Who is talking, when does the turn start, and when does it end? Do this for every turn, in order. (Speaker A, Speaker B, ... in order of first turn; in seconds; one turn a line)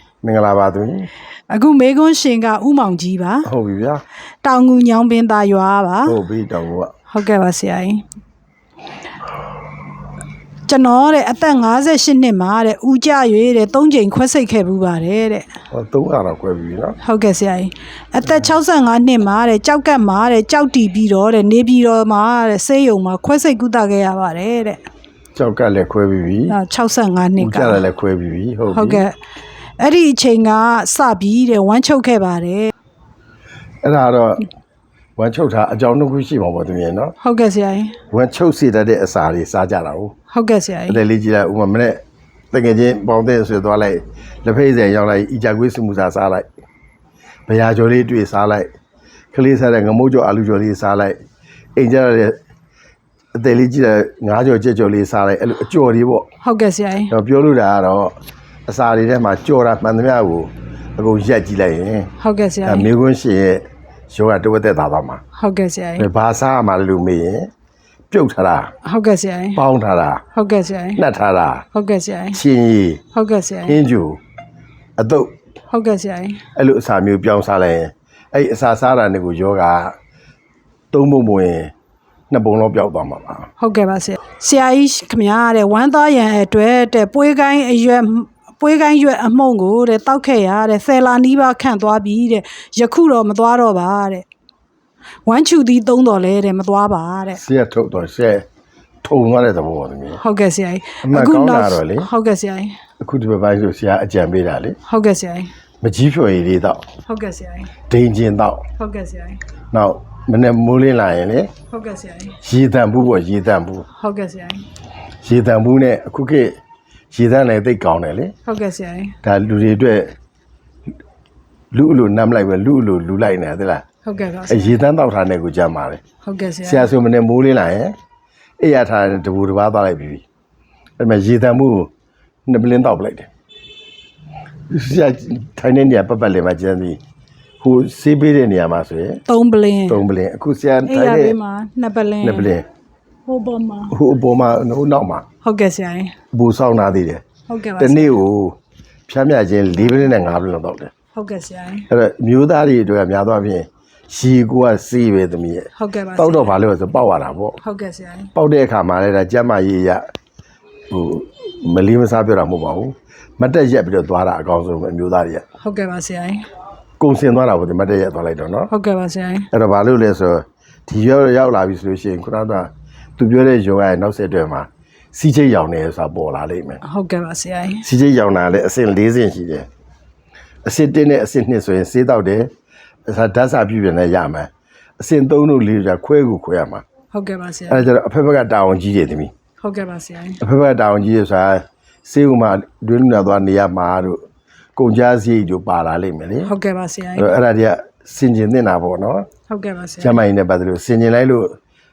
Speaker A: 0.2-1.1
Speaker B: 1.5-3.5
Speaker A: 3.5-4.0
Speaker B: 4.4-6.2
Speaker A: 6.0-6.9
Speaker B: 7.1-8.1
Speaker B: 10.7-15.5
Speaker A: 15.7-17.0
Speaker B: 17.0-24.8
Speaker A: 25.4-26.6
Speaker B: 26.5-27.8
Speaker A: 27.4-29.0
Speaker B: 28.7-29.2
Speaker B: 29.8-32.7
Speaker A: 33.8-34.5
Speaker A: 35.2-37.1
Speaker B: 37.2-38.0
Speaker A: 38.1-40.1
Speaker B: 40.3-41.0
Speaker A: 40.9-42.0
Speaker A: 42.5-46.5
Speaker A: 47.5-48.7
Speaker A: 49.3-51.2
Speaker A: 51.8-52.4
Speaker A: 53.4-56.3
Speaker B: 56.4-57.1
Speaker A: 57.1-58.2
Speaker A: 58.7-62.1
Speaker B: 62.2-62.9
Speaker A: 62.6-65.2
Speaker B: 65.3-66.1
Speaker A: 66.0-67.5
Speaker A: 68.1-68.7
Speaker B: 68.8-69.6
Speaker A: 69.6-70.2
Speaker B: 70.3-71.0
Speaker A: 71.0-71.7
Speaker B: 71.7-72.4
Speaker A: 72.3-73.0
Speaker B: 73.1-73.8
Speaker A: 73.7-74.2
Speaker A: 75.0-75.3
Speaker B: 75.7-76.4
Speaker A: 76.5-80.0
Speaker A: 80.9-81.7
Speaker A: 82.3-83.5
Speaker B: 83.6-94.3
Speaker B: 95.3-97.4
Speaker A: 97.4-98.5
Speaker A: 99.0-100.2
Speaker B: 100.2-102.8
Speaker A: 101.0-102.1
Speaker A: 103.0-104.8
Speaker B: 104.8-105.5
Speaker A: 105.8-106.9
Speaker B: 107.1-107.7
Speaker A: 107.9-108.6
Speaker B: 108.8-109.4
Speaker A: 109.7-111.5
Speaker B: 111.7-112.4
Speaker A: 112.4-113.9
Speaker B: 114.0-114.7
Speaker A: 115.2-116.6
Speaker A: 117.1-118.3
Speaker B: 118.5-119.2
Speaker A: 119.2-120.1
Speaker A: 121.7-123.8
Speaker B: 124.0-124.8
Speaker A: 124.5-126.0
Speaker B: 126.2-126.9
Speaker A: 126.7-128.0
Speaker A: 128.6-130.2
Speaker A: 131.0-131.9
Speaker A: 132.5-133.3
Speaker A: 134.7-137.0
Speaker A: 137.6-139.2
Speaker B: 139.3-140.0
Speaker A: 139.9-141.4
Speaker B: 140.8-142.5
Speaker A: 142.2-142.7
Speaker B: 143.3-143.9
Speaker A: 143.9-145.2
Speaker B: 145.4-146.2
Speaker A: 146.3-147.2
Speaker B: 147.5-148.2
Speaker A: 147.8-148.6
Speaker A: 149.1-150.9
Speaker B: 151.1-151.9
Speaker A: 151.9-157.6
Speaker B: 155.8-156.6
Speaker B: 157.6-158.3
Speaker A: 158.3-160.0
Speaker A: 160.9-165.4
Speaker B: 165.6-166.5
Speaker A: 167.0-168.7
Speaker B: 168.7-169.5
Speaker A: 169.5-176.8
Speaker B: 176.8-177.8
Speaker A: 177.8-179.7
Speaker A: 180.7-182.5
Speaker A: 183.1-186.8
Speaker B: 187.1-187.9
Speaker A: 187.7-189.3
Speaker B: 189.6-190.4
Speaker A: 190.4-194.2
Speaker A: 194.8-196.5
Speaker B: 196.4-197.3
Speaker A: 197.2-199.3
Speaker B: 199.5-200.2
Speaker A: 200.0-201.6